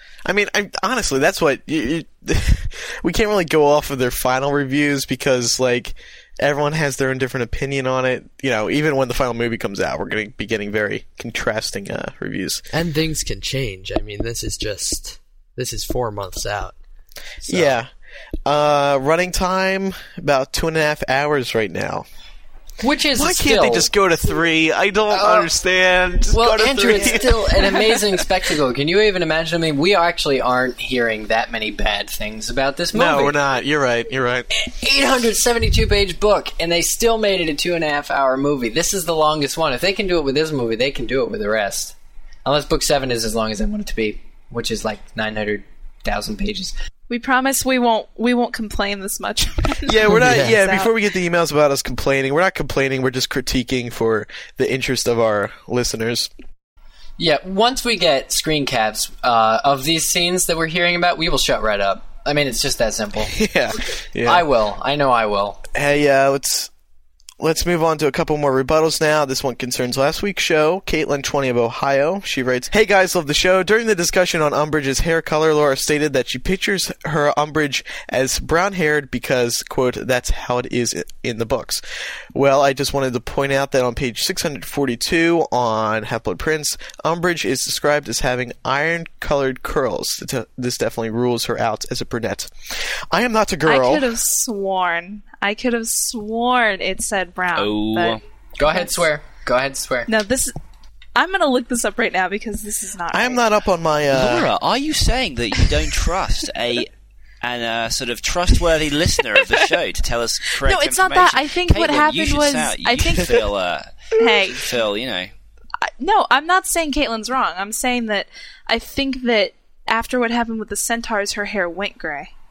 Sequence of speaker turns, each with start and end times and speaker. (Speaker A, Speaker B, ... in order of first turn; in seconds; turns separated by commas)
Speaker A: 0.2-12.6, Speaker B: 12.7-16.7, Speaker B: 17.4-17.7, Speaker A: 17.5-17.9, Speaker A: 18.4-22.1, Speaker C: 22.8-23.9, Speaker A: 23.1-28.2, Speaker C: 25.1-25.5, Speaker C: 26.3-33.4, Speaker A: 32.9-34.5, Speaker C: 34.5-46.7, Speaker D: 47.1-50.9, Speaker A: 49.9-56.3, Speaker B: 50.1-50.5, Speaker C: 57.2-63.4, Speaker A: 63.3-64.4, Speaker C: 64.2-65.6, Speaker A: 65.7-66.7, Speaker A: 67.4-81.8, Speaker A: 82.3-94.2, Speaker D: 93.7-98.2, Speaker E: 97.5-98.2, Speaker C: 98.6-100.1, Speaker D: 100.1-100.5, Speaker D: 101.2-103.4, Speaker A: 103.1-104.5, Speaker E: 104.1-106.9, Speaker E: 107.4-115.3, Speaker D: 110.6-113.4, Speaker D: 114.2-114.7, Speaker D: 115.8-122.3